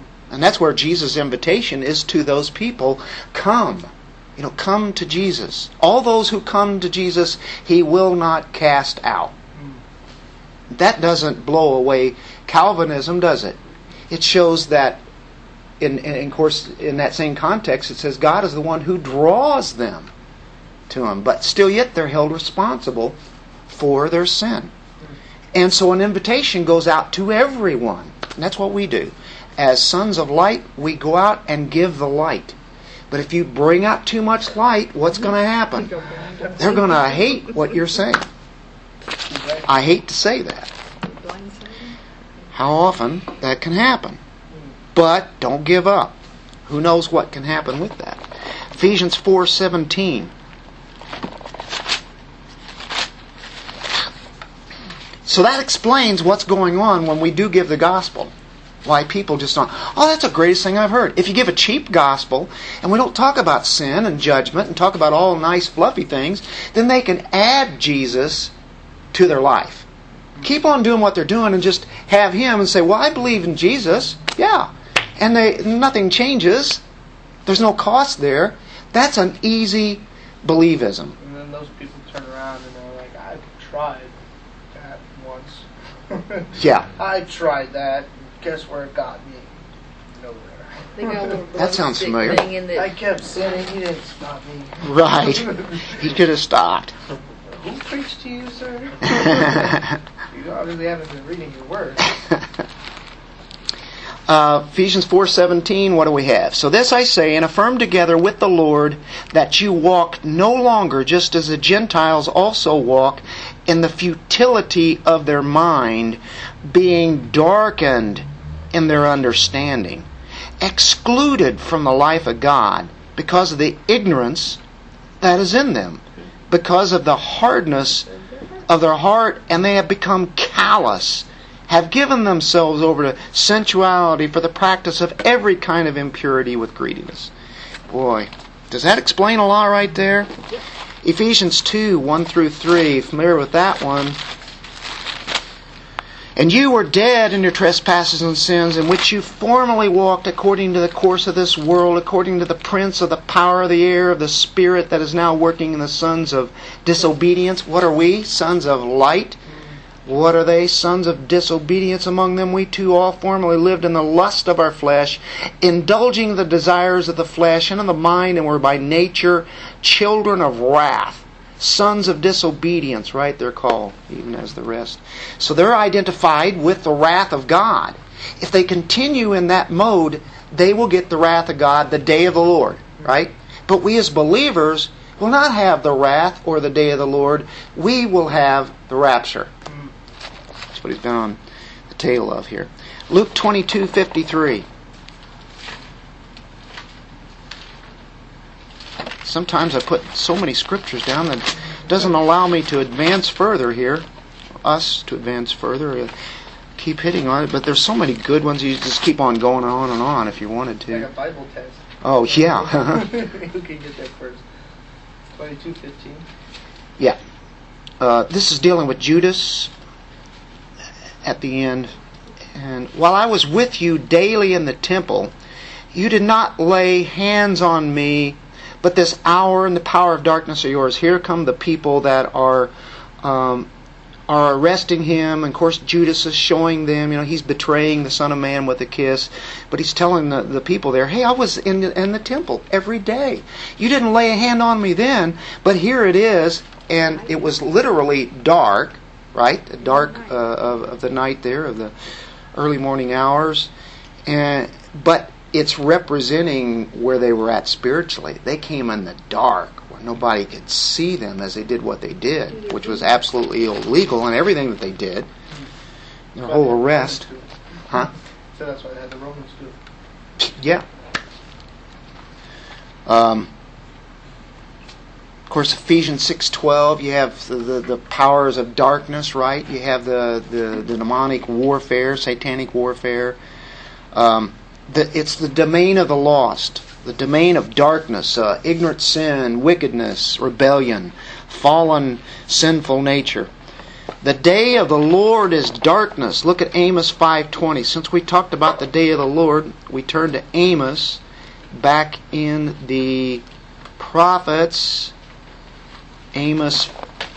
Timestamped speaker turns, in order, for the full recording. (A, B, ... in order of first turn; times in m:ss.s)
0:00.3-0:09.3 A
0:09.6-0:09.8 B
0:10.7-0:13.6 A
0:14.1-0:15.0 A
0:15.8-0:20.1 A
0:20.9-0:23.2 A
0:23.7-0:24.7 A
0:25.5-0:32.6 A
0:33.1-0:35.9 A
0:35.8-0:37.9 C
0:36.6-0:38.3 A
0:39.3-0:39.7 B
0:39.7-0:40.7 A
0:41.0-0:42.0 C
0:42.5-0:44.2 A
0:45.0-0:50.3 A
0:55.2-0:58.3 A
0:58.8-1:08.5 A
1:09.1-1:09.9 A
1:10.4-1:16.8 A
1:17.5-1:21.2 A
1:21.2-1:24.1 B
1:24.7-1:31.4 B
1:26.6-1:26.9 A
1:31.0-1:32.9 C
1:31.6-1:32.4 A
1:32.8-1:35.9 B
1:34.8-1:36.9 A
1:37.5-1:39.8 B
1:39.1-1:39.9 A
1:40.3-1:42.1 B
1:44.3-2:00.1 A
2:00.6-2:04.6 A
2:05.2-2:08.1 A
2:08.7-2:17.3 A
2:17.9-2:20.3 A
2:21.0-2:24.2 A
2:26.4-2:39.4 A
2:39.5-2:39.8 B
2:40.1-3:09.5 A
3:10.7-3:11.4 A
3:11.9-3:14.7 A
3:19.2-3:24.1 A
3:24.6-3:26.1 A
3:26.8-3:31.1 A
3:30.9-3:34.4 B
3:32.0-3:33.1 A
3:35.3-3:36.2 B
3:38.0-3:39.7 A
3:41.2-3:41.9 A
3:42.6-3:45.3 A
3:45.9-3:53.7 A
3:54.3-4:11.9 A
4:09.8-4:10.4 C
4:12.6-4:13.7 A
4:14.3-4:25.3 A
4:22.5-4:23.2 C
4:26.4-4:27.3 A
4:26.4-4:27.5 B
4:28.5-4:29.8 B
4:30.4-4:30.8 A
4:33.1-4:33.5 A
4:35.5-4:43.4 A
4:44.1-4:53.5 A
4:54.2-5:01.2 A
5:01.7-5:03.4 A
5:04.0-5:05.1 A
5:06.3-5:06.9 A